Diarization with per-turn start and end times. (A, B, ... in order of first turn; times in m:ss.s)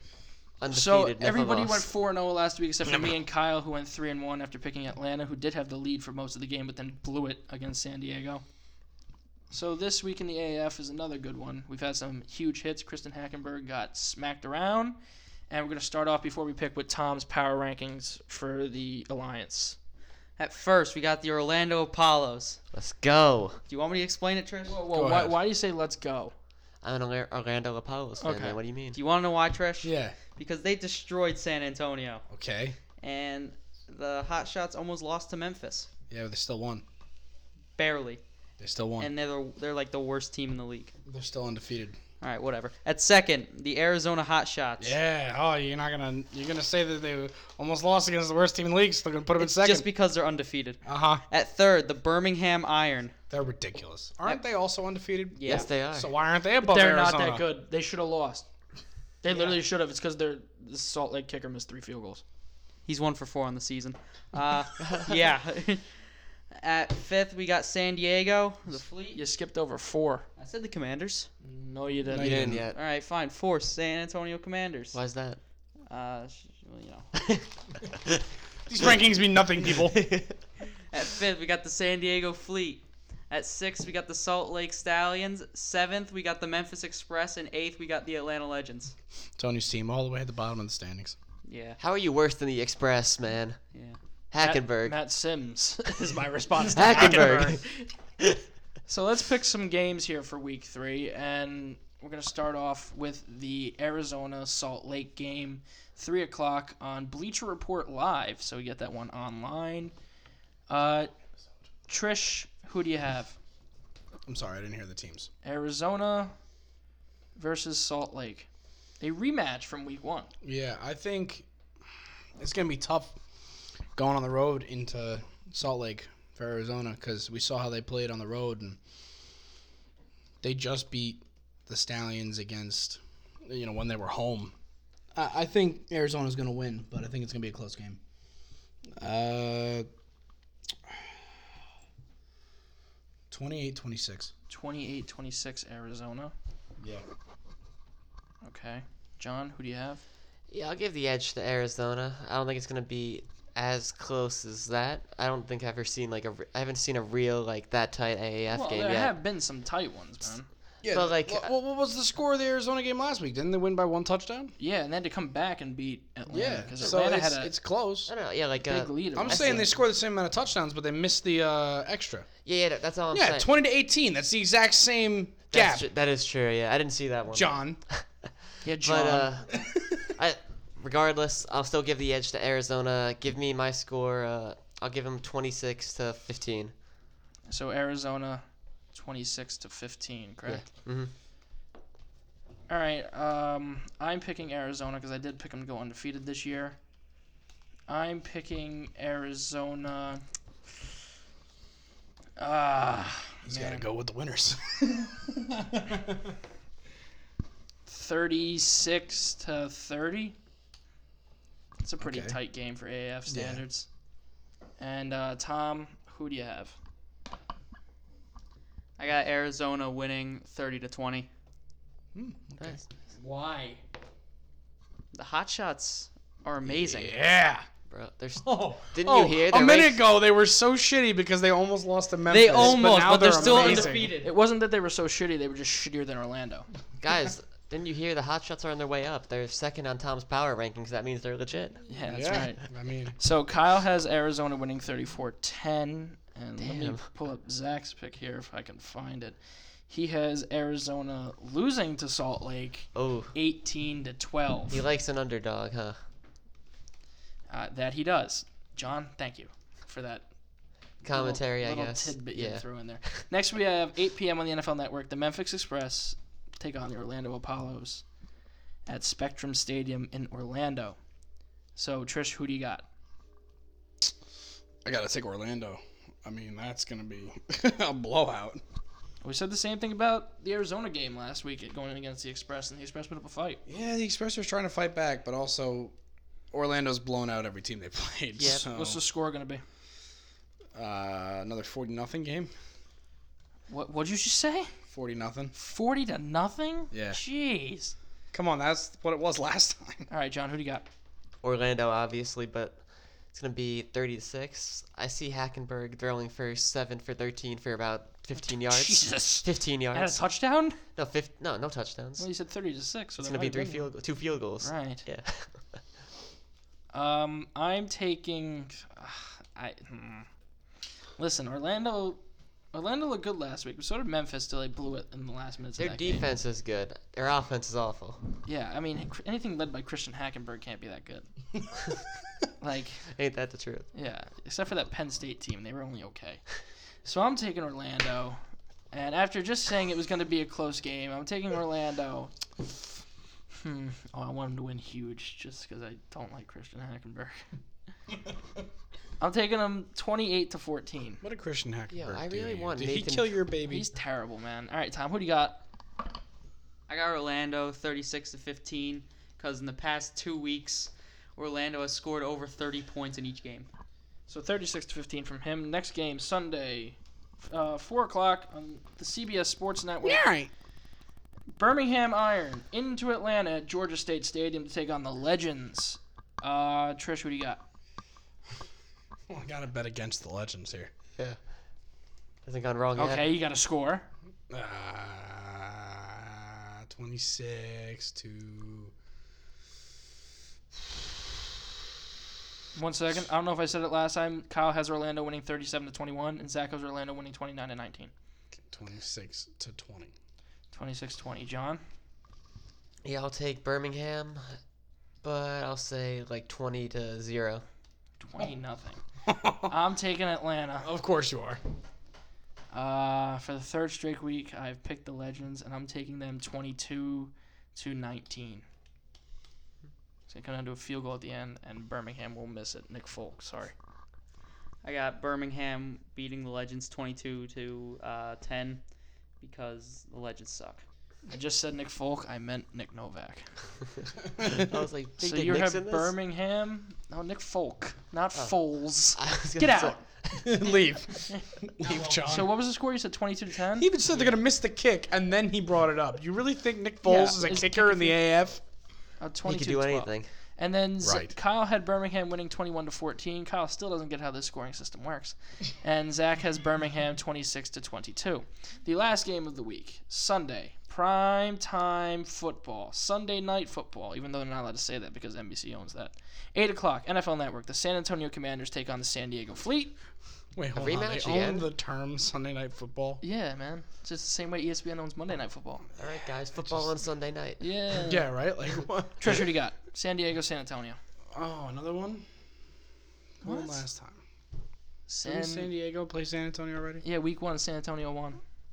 0:00.6-0:01.9 A
0:00.7-0:08.4 B
0:02.9-0:03.1 C
0:09.5-0:15.0 B
0:15.5-0:19.8 B
0:20.4-0:22.6 D
0:22.7-0:23.6 A
0:23.7-0:24.8 D
0:24.6-0:26.3 B
0:24.9-0:25.4 C
0:26.8-0:29.0 A
0:28.2-0:28.6 B
0:28.9-0:32.2 D
0:29.8-0:30.2 C
0:32.3-0:32.8 C
0:33.0-0:35.9 D
0:36.1-0:36.8 C
0:37.8-0:38.2 D
0:38.6-0:39.1 C
0:39.0-0:40.9 D
0:41.0-0:42.0 C
0:42.2-0:45.0 D
0:44.8-0:49.9 C
0:49.4-0:53.1 D
0:50.8-0:51.2 C
0:53.3-0:57.5 C
0:55.3-0:55.7 D
0:55.4-0:56.1 A
0:56.6-0:58.4 B
0:59.2-1:02.2 B
1:02.8-1:06.0 D
1:04.8-1:05.1 A
1:06.5-1:09.2 D
1:09.1-1:10.2 B
1:10.4-1:11.3 D
1:11.4-1:12.5 B
1:12.1-1:12.6 C
1:12.1-1:12.8 A
1:12.7-1:15.0 D
1:14.9-1:15.4 A
1:15.9-1:17.0 D
1:17.2-1:17.4 A
1:18.7-1:20.1 C
1:19.7-1:20.4 A
1:20.9-1:28.9 D
1:29.4-1:31.2 C
1:31.4-1:31.8 D
1:31.8-1:33.6 A
1:34.3-1:35.0 A
1:34.4-1:37.6 B
1:36.7-1:38.4 A
1:38.9-1:49.9 B
1:50.7-1:51.1 B
1:51.9-1:53.4 B
1:54.3-1:55.3 C
1:55.4-1:56.3 B
1:57.4-1:58.5 B
1:59.0-2:00.3 B
2:00.4-2:01.4 C
2:02.4-2:03.2 C
2:04.0-2:08.8 C
2:10.4-2:14.5 C
2:15.1-2:18.0 C
2:18.9-2:19.9 C
2:23.3-2:24.3 C
2:24.5-2:26.3 B
2:28.4-2:30.0 B
2:30.5-2:39.1 A
2:38.5-2:40.5 B
2:40.8-2:44.5 C
2:40.9-2:41.5 A
2:44.6-2:47.5 B
2:46.3-2:48.1 C
2:48.1-2:49.7 A
2:48.6-2:49.8 B
2:49.2-2:52.3 C
2:52.4-2:53.5 A
2:53.1-2:55.8 C
2:55.5-3:06.7 A
2:57.3-2:57.8 C
2:58.6-2:59.3 B
3:07.5-3:10.6 B
3:10.4-3:11.1 A
3:12.7-3:16.8 B
3:17.9-3:20.2 B
3:22.4-3:23.8 B
3:23.4-3:26.2 C
3:27.8-3:30.3 B
3:31.8-3:33.9 B
3:32.0-3:32.4 C
3:33.3-3:33.6 C
3:34.8-3:36.8 B
3:39.0-3:41.3 D
3:42.1-3:42.8 C
3:42.6-3:42.8 A
3:43.2-3:43.8 B
3:45.1-3:47.2 D
3:46.7-3:47.6 C
3:47.9-3:50.0 A
3:48.4-3:54.2 C
3:52.3-3:54.3 D
3:52.9-3:56.7 B
3:57.0-4:02.4 A
4:01.9-4:02.6 B
4:02.1-4:03.2 C
4:03.2-4:09.4 B
4:06.6-4:07.1 A
4:09.9-4:14.8 B
4:12.9-4:13.3 A
4:14.7-4:16.0 A
4:17.5-4:20.2 B
4:21.0-4:23.2 A
4:21.1-4:28.0 B
4:28.9-4:31.0 B
4:31.8-4:32.8 B
4:34.8-4:38.6 C
4:39.2-4:43.6 B
4:43.7-4:45.9 C
4:46.5-4:49.0 C
4:48.4-4:49.6 B
4:50.7-4:52.5 C
4:53.7-4:54.7 B
4:54.9-4:55.5 C
4:55.5-4:57.9 B
4:56.9-4:57.2 C
4:58.3-5:00.1 C
5:00.1-5:00.9 B
5:01.4-5:02.8 A
5:03.3-5:10.2 A
5:08.4-5:10.8 B
5:10.9-5:12.3 A
5:12.2-5:13.9 B
5:13.2-5:15.8 A
5:14.6-5:15.0 B
5:16.9-5:20.3 B
5:21.2-5:22.2 B
5:22.7-5:26.2 B
5:25.8-5:28.2 A
5:28.4-5:31.3 B
5:32.6-5:33.1 B
5:33.1-5:33.9 A
5:33.9-5:36.4 B
5:37.0-5:38.4 B
5:38.9-5:42.9 B
5:43.5-5:47.4 B
5:49.2-5:51.2 B
5:51.2-5:53.9 C
5:51.9-5:53.3 A
5:53.6-5:55.6 B
5:56.9-6:03.7 D
6:04.3-6:10.2 B
6:10.0-6:10.5 C
6:11.6-6:17.6 B
6:19.3-6:20.9 C
6:22.4-6:23.3 A
6:23.0-6:24.1 B
6:24.5-6:28.9 C
6:32.7-6:38.1 B
6:38.7-6:40.1 C
6:40.7-6:41.8 B
6:43.0-6:44.6 A
6:45.2-6:47.6 A
6:48.2-6:49.0 B
6:49.2-6:49.7 C
6:49.6-6:50.9 B
6:50.8-6:51.6 C
6:52.7-6:58.6 B
7:00.3-7:03.7 B
7:04.8-7:08.8 D
7:09.4-7:10.8 D
7:11.3-7:13.5 B
7:14.4-7:16.1 A
7:15.2-7:20.0 B
7:19.1-7:20.4 A
7:20.4-7:22.5 C
7:22.1-7:23.9 B
7:23.7-7:28.6 C
7:27.0-7:28.2 B
7:29.2-7:49.9 B
7:29.4-7:30.3 A
7:31.0-7:31.3 C
7:50.5-7:53.2 C
7:50.7-7:51.7 A
7:53.2-7:55.8 B
7:56.0-7:57.6 A
7:57.6-7:58.3 B
7:58.0-7:59.5 C
7:59.2-8:01.0 B
8:01.3-8:02.2 C
8:03.4-8:04.2 C
8:03.4-8:03.8 B
8:05.1-8:05.7 B
8:05.2-8:07.0 C
8:07.0-8:08.4 B